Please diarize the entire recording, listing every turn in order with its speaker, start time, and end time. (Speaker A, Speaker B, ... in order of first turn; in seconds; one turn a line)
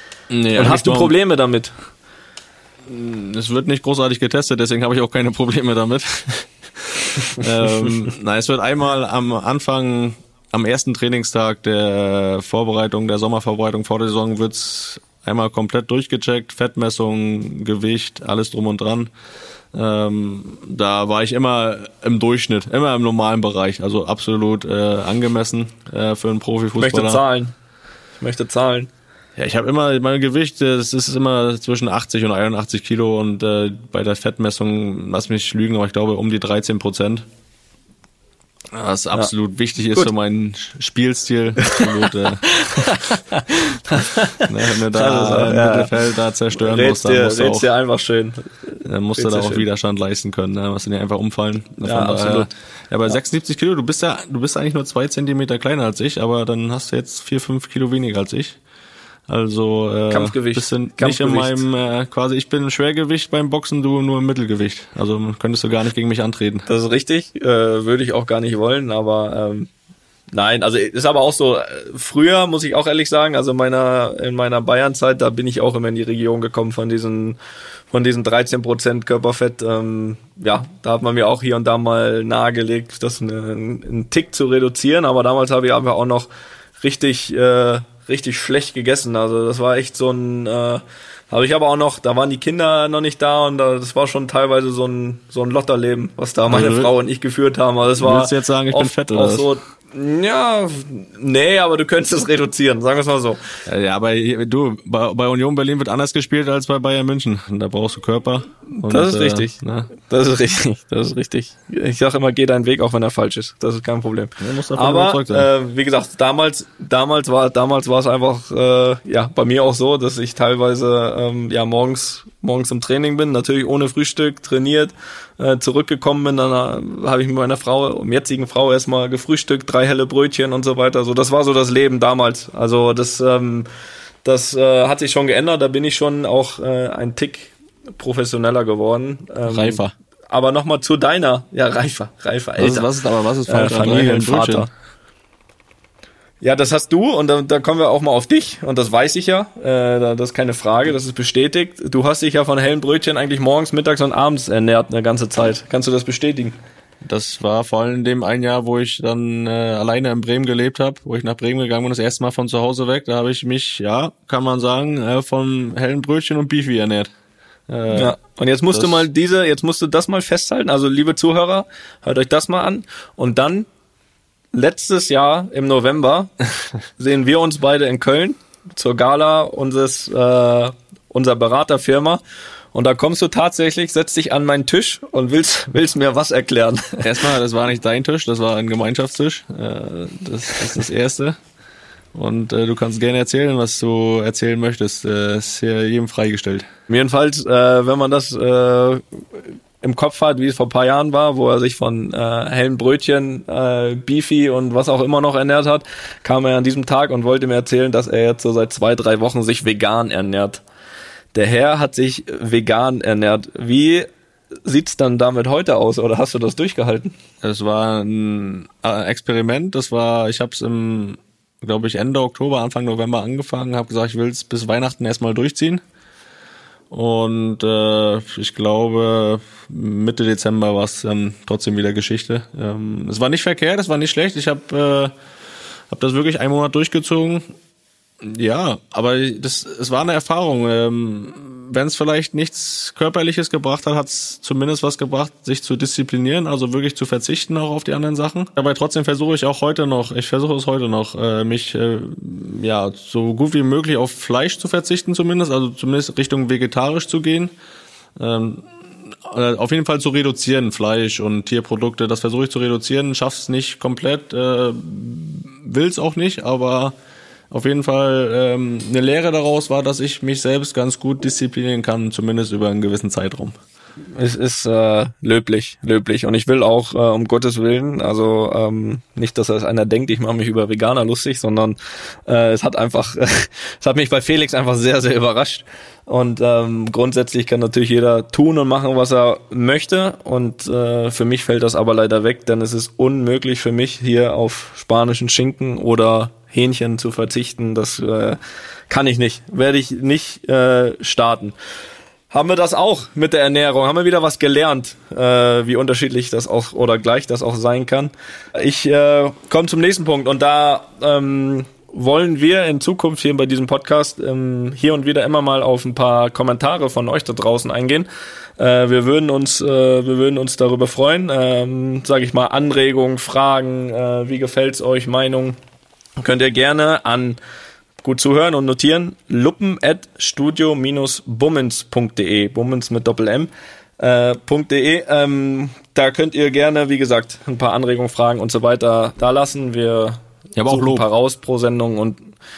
Speaker A: 0.3-1.1
Speaker B: 0.5-1.7
Speaker A: 2.9-19.1
Speaker A: 19.7-27.2
Speaker B: 26.8-27.5
Speaker B: 28.2-28.9
Speaker A: 29.4-37.3
Speaker A: 38.7-42.9
Speaker B: 42.5-45.9
Speaker A: 44.5-47.7
Speaker B: 46.5-49.6
Speaker A: 48.8-58.6
Speaker B: 51.8-52.5
Speaker A: 59.3-66.7
Speaker B: 60.1-61.6
Speaker B: 66.7-69.7
Speaker B: 70.3-77.4
Speaker B: 77.9-103.4
Speaker A: 96.5-96.9
Speaker A: 98.0-99.5
Speaker A: 103.7-109.9
Speaker B: 108.8-133.7
Speaker A: 114.4-115.5
Speaker B: 134.2-142.9
Speaker A: 139.4-139.9
Speaker A: 142.6-144.7
Speaker B: 143.5-144.7
Speaker B: 146.4-156.6
Speaker A: 157.0-167.1
Speaker A: 167.7-168.2
Speaker B: 167.9-173.7
Speaker A: 168.7-169.1
Speaker B: 174.5-176.3
Speaker B: 177.0-182.2
Speaker B: 182.7-187.1
Speaker A: 187.0-191.4
Speaker A: 192.1-196.7
Speaker B: 196.9-199.0
Speaker B: 199.8-210.6
Speaker B: 211.3-214.1
Speaker B: 214.6-217.1
Speaker A: 217.4-225.8
Speaker A: 226.9-235.1
Speaker A: 235.9-237.4
Speaker A: 238.2-257.5
Speaker A: 258.2-266.9
Speaker A: 267.5-273.6
Speaker B: 274.1-301.5
Speaker B: 302.3-325.6
Speaker B: 326.2-327.4
Speaker B: 328.0-342.3
Speaker A: 340.6-341.1